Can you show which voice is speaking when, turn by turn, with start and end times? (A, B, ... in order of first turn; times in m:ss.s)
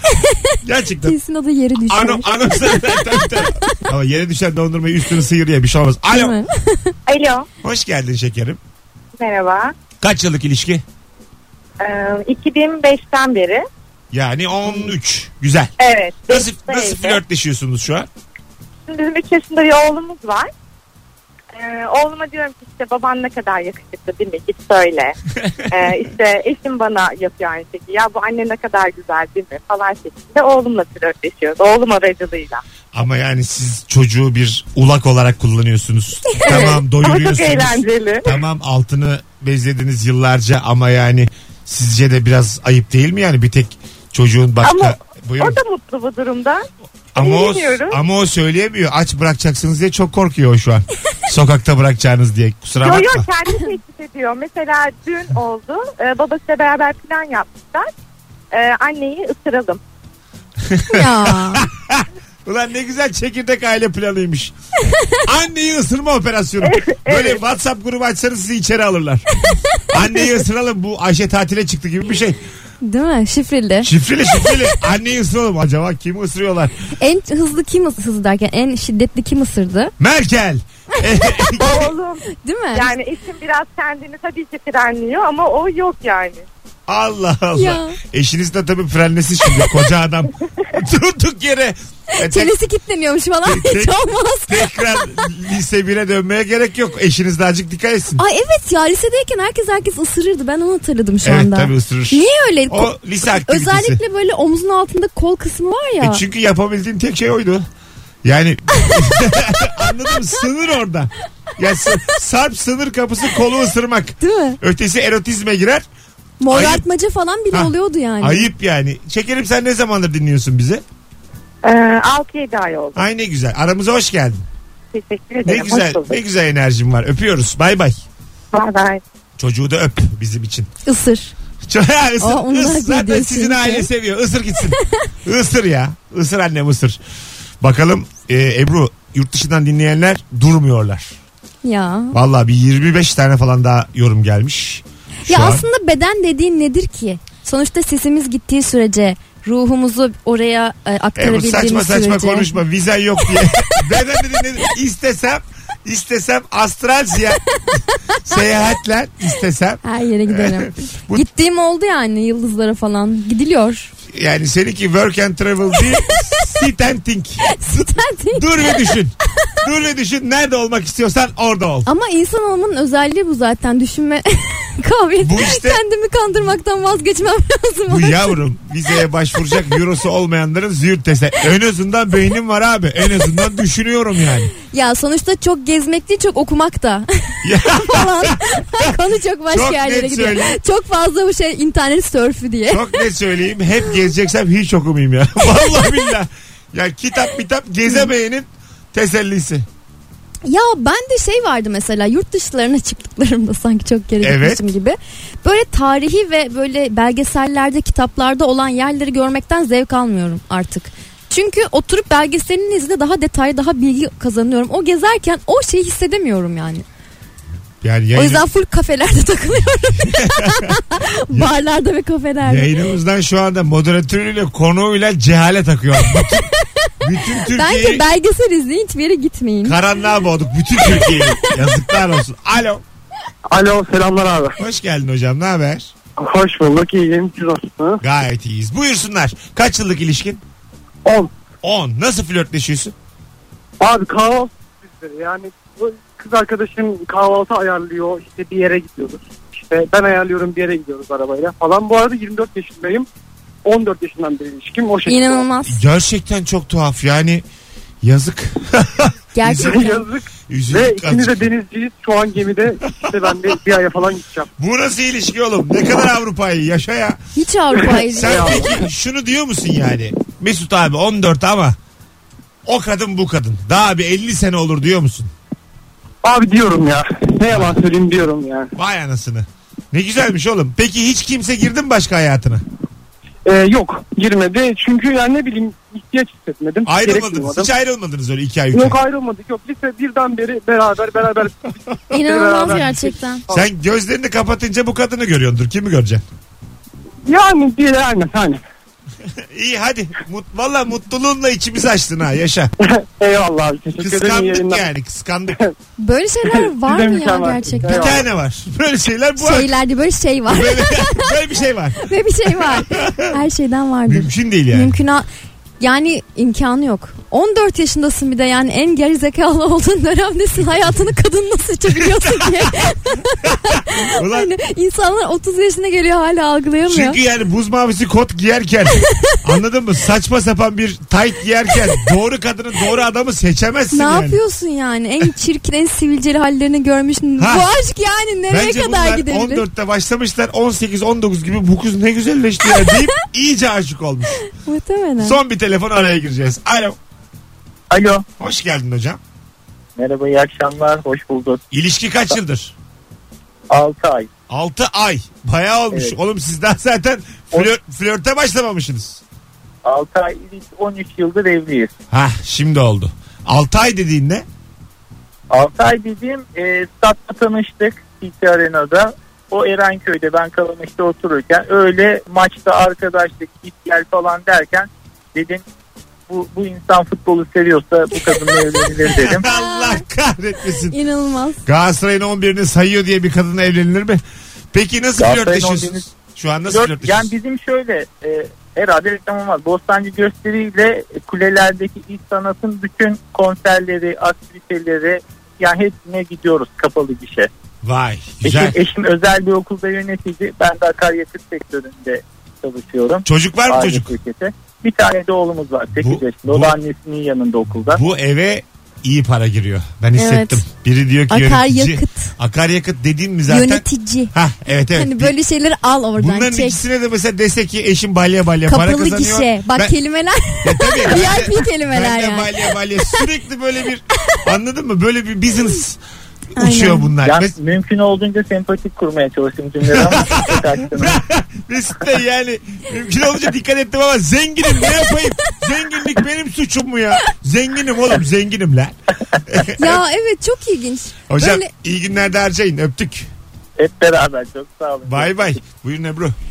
0:00.2-0:03.7 A
0:00.6-0:01.2 B
0:01.9-0:06.4 B
0:06.1-0:06.9 A
0:07.1-0:07.4 C
0:07.6-0:08.6 B
0:09.2-0:09.7 C
0:10.0-0:10.8 B
0:11.8-0:13.6 C
0:14.1-0:15.7 B
0:15.8-0:17.2 C
0:16.3-0:18.1 B
0:18.9-0:20.5 C
0:21.5-0:25.2 C
0:25.7-0:32.6 C
0:32.9-0:45.6 B
0:36.3-0:38.3 C
0:44.6-0:46.6 C
0:47.2-0:53.2 B
0:47.2-0:48.0 C
0:52.8-0:57.9 C
0:58.5-0:59.8 C
1:00.6-1:04.5 B
1:00.9-1:01.6 A
1:05.2-1:09.2 B
1:06.6-1:07.4 C
1:09.9-1:12.4 B
1:12.8-1:13.9 A
1:13.8-1:16.7 B
1:17.0-1:19.9 A
1:20.0-1:21.9 B
1:21.6-1:26.4 C
1:22.4-1:22.9 A
1:26.9-1:32.5 B
1:27.5-1:28.0 A
1:32.2-1:34.7 A
1:33.4-1:38.2 B
1:38.2-1:46.2 A
1:41.2-1:44.0 B
1:46.0-1:47.7 B
1:48.2-1:55.8 B
1:54.2-1:54.6 A
1:56.4-1:58.5 A
1:56.5-1:56.8 B
1:57.5-2:00.8 B
2:01.6-2:03.0 C
2:03.0-2:04.4 B
2:04.9-2:06.2 C
2:05.4-2:08.0 B
2:08.5-2:09.0 C
2:09.4-2:10.7 B
2:10.8-2:11.3 A
2:11.7-2:17.0 B
2:12.2-2:13.9 A
2:17.6-2:21.2 B
2:21.6-2:22.2 A
2:22.1-2:25.6 B
2:25.2-2:32.5 A
2:31.2-2:37.4 B
2:38.2-2:41.2 B
2:39.8-2:43.9 A
2:44.1-2:51.9 B
2:47.5-2:48.8 A
2:51.8-2:58.3 A
2:55.2-2:55.8 B
2:57.9-3:04.5 B
3:04.6-3:13.0 A
3:07.4-3:08.9 B
3:09.5-3:10.6 B
3:12.7-3:19.7 B
3:20.4-3:36.8 A
3:24.2-3:24.6 B
3:37.8-3:38.4 B
3:38.1-3:42.7 A
3:40.1-3:40.7 B
3:42.4-3:46.5 B
3:47.0-3:48.0 B
3:47.4-3:49.8 A
3:49.6-3:52.8 B
3:50.8-3:51.5 A
3:53.5-3:54.5 D
3:54.6-3:55.9 B
3:56.2-3:58.0 D
3:58.0-4:00.4 B
4:01.0-4:01.3 D
4:01.6-4:02.9 B
4:03.8-4:13.1 D
4:13.6-4:15.4 D
4:15.0-4:15.8 A
4:15.6-4:17.4 B
4:18.0-4:19.9 B
4:19.3-4:20.1 A
4:19.6-4:24.5 D
4:20.5-4:21.5 B
4:24.6-4:27.2 B
4:27.4-4:28.8 A
4:28.0-4:28.8 D
4:28.1-4:31.8 B
4:32.6-4:35.3 B
4:36.2-4:38.7 D
4:37.5-4:37.7 B
4:38.7-4:42.6 B
4:43.4-4:47.7 D
4:46.8-4:49.0 B
4:48.7-4:53.7 D
4:52.1-4:53.4 A
4:53.5-4:56.2 B
4:57.2-4:58.6 D
4:59.5-5:02.7 B
5:02.8-5:04.8 D
5:04.0-5:05.6 B
5:06.0-5:08.2 A
5:06.4-5:08.2 D
5:07.8-5:09.7 B
5:09.4-5:11.3 A
5:10.5-5:12.0 B
5:12.0-5:15.3 A
5:12.5-5:13.3 B
5:14.0-5:15.0 B
5:15.8-5:27.2 A
5:21.9-5:22.9 B
5:23.4-5:24.5 B
5:26.8-5:34.4 B
5:33.9-5:39.6 A
5:37.4-5:37.7 B
5:38.5-5:44.5 B
5:44.5-5:45.4 A
5:45.2-5:47.0 B
5:47.9-5:48.2 E
5:48.4-5:49.2 B
5:50.0-5:51.6 E
5:51.7-5:52.7 B
5:53.7-5:54.3 E
5:54.5-5:59.2 B
5:59.8-6:01.9 E
6:02.1-6:04.4 B
6:05.5-6:15.6 E
6:16.3-6:19.4 E
6:19.1-6:21.0 B
6:19.4-6:20.0 A
6:20.9-6:21.6 A
6:21.6-6:24.2 B
6:24.7-6:27.3 B
6:25.2-6:26.0 E
6:26.7-6:37.5 E
6:37.8-6:38.8 B
6:38.4-6:48.0 E
6:43.2-6:44.1 B
6:46.0-6:46.8 B
6:47.9-6:55.3 B
6:50.1-6:50.6 A
6:51.3-6:52.3 A
6:53.5-6:54.3 A
6:54.9-6:56.8 A
6:56.2-6:59.9 B
6:58.7-7:02.5 A
7:00.6-7:06.0 B
7:06.6-7:07.5 B
7:06.6-7:07.1 A
7:07.2-7:11.2 E
7:09.9-7:18.9 B
7:19.5-7:20.0 B
7:19.8-7:21.7 A
7:21.3-7:23.3 B
7:23.8-7:25.6 E
7:25.0-7:26.4 B